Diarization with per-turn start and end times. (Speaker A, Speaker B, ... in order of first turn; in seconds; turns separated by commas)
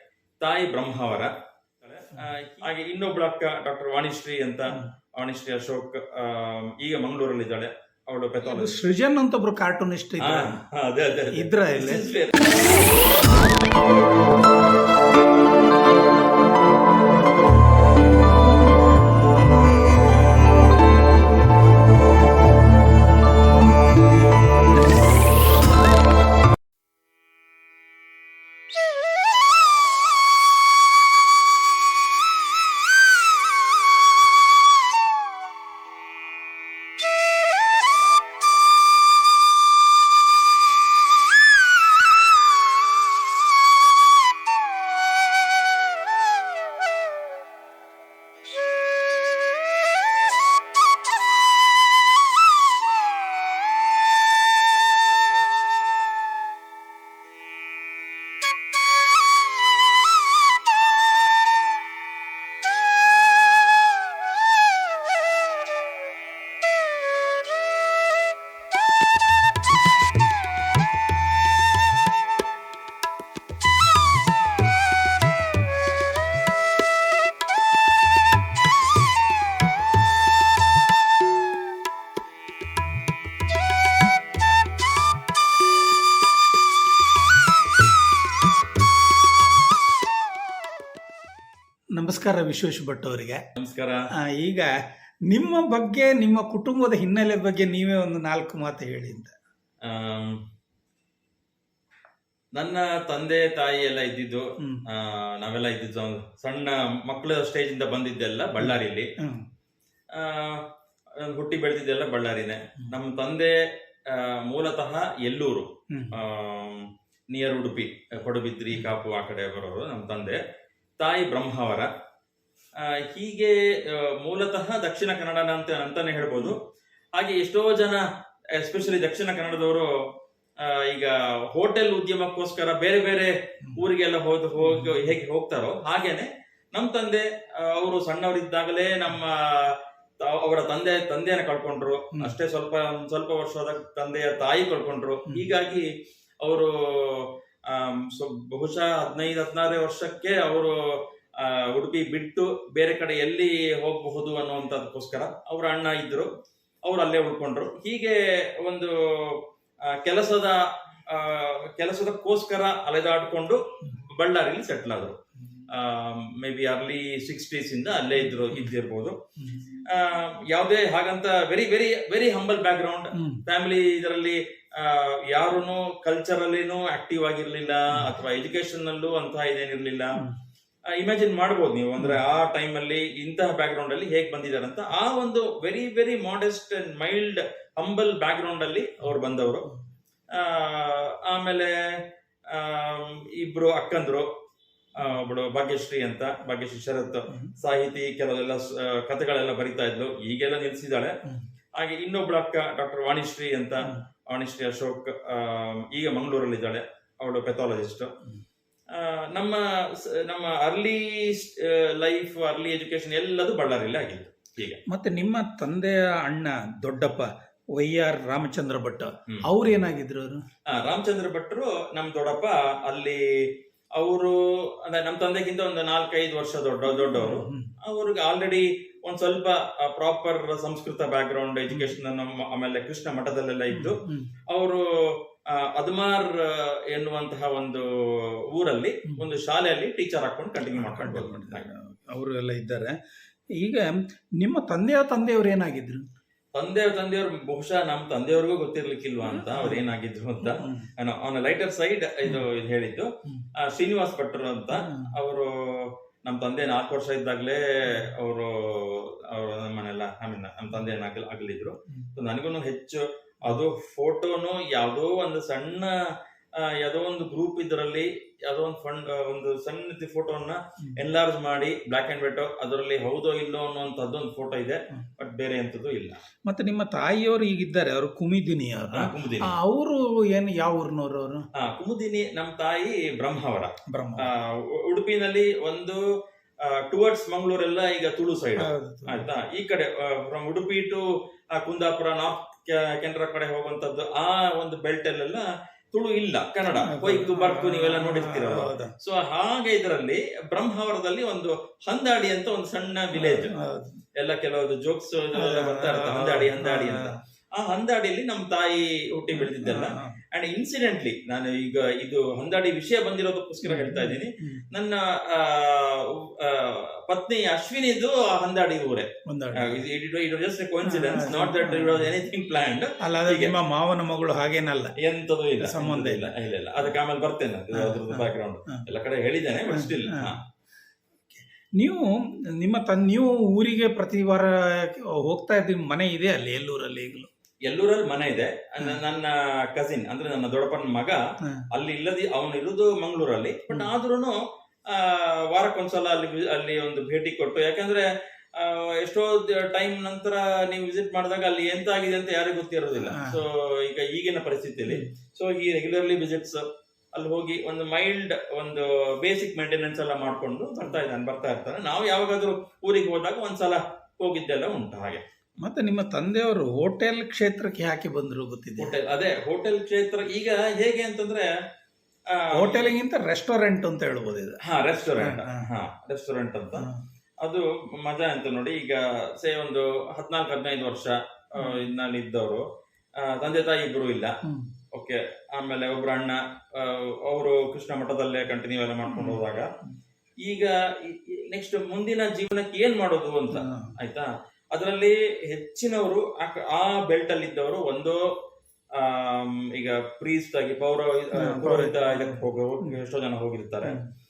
Speaker A: 0.4-8.8, Speaker B: 8.4-10.5, Speaker A: 10.2-12.7, Speaker B: 11.3-12.0, Speaker B: 92.0-93.4, Speaker A: 93.5-94.0, Speaker B: 94.3-94.7, Speaker B: 95.3-99.3, Speaker A: 99.8-100.4, Speaker A: 102.5-109.1, Speaker B: 108.6-109.4, Speaker A: 110.1-110.6, Speaker A: 111.2-113.5, Speaker A: 114.1-120.4, Speaker A: 121.0-121.9, Speaker A: 122.8-126.6, Speaker A: 127.2-128.0, Speaker A: 128.6-129.9, Speaker A: 130.6-145.8, Speaker B: 134.6-135.1, Speaker A: 146.4-156.3, Speaker A: 156.8-159.4, Speaker A: 159.9-165.2, Speaker A: 165.7-169.2, Speaker B: 168.3-168.7, Speaker B: 169.4-169.7, Speaker A: 169.8-180.2, Speaker B: 173.2-173.4, Speaker A: 180.9-189.7, Speaker A: 190.3-191.8, Speaker A: 192.5-194.3, Speaker A: 194.9-201.1, Speaker A: 201.8-208.1, Speaker A: 208.9-214.8, Speaker B: 214.9-220.4, Speaker A: 220.7-234.0, Speaker B: 226.9-227.7, Speaker B: 231.7-232.0, Speaker B: 233.7-234.3, Speaker A: 234.5-241.7, Speaker B: 240.7-242.9, Speaker B: 243.6-246.0, Speaker A: 246.5-266.0, Speaker B: 249.2-249.8, Speaker B: 250.4-250.9, Speaker B: 254.8-255.1, Speaker A: 266.6-276.2, Speaker B: 276.5-281.4, Speaker A: 278.9-279.5, Speaker A: 281.5-286.0, Speaker B: 283.9-284.3, Speaker A: 286.6-303.5, Speaker B: 288.6-289.3, Speaker B: 296.8-298.9, Speaker B: 303.1-304.0, Speaker A: 304.2-323.5, Speaker B: 305.4-307.1, Speaker B: 309.3-310.2, Speaker B: 313.6-314.6, Speaker B: 319.3-319.8, Speaker B: 320.8-322.1, Speaker B: 323.1-324.9, Speaker A: 325.0-330.4, Speaker B: 325.6-326.3, Speaker B: 327.7-328.8, Speaker B: 329.7-330.4, Speaker B: 331.3-332.1, Speaker B: 332.6-337.3, Speaker A: 337.6-341.2, Speaker A: 341.7-344.4, Speaker A: 344.9-348.0, Speaker A: 348.6-356.6, Speaker B: 353.0-353.4, Speaker A: 357.1-365.2, Speaker B: 365.6-368.9, Speaker A: 368.8-371.5, Speaker A: 372.3-372.9, Speaker B: 372.5-374.6, Speaker A: 374.6-376.9, Speaker B: 375.2-375.6, Speaker A: 377.4-382.6, Speaker B: 381.6-381.9, Speaker A: 383.2-384.3, Speaker A: 384.9-389.7, Speaker B: 389.1-389.4, Speaker A: 390.4-398.2, Speaker B: 393.5-393.9, Speaker A: 398.9-404.0, Speaker B: 401.4-403.0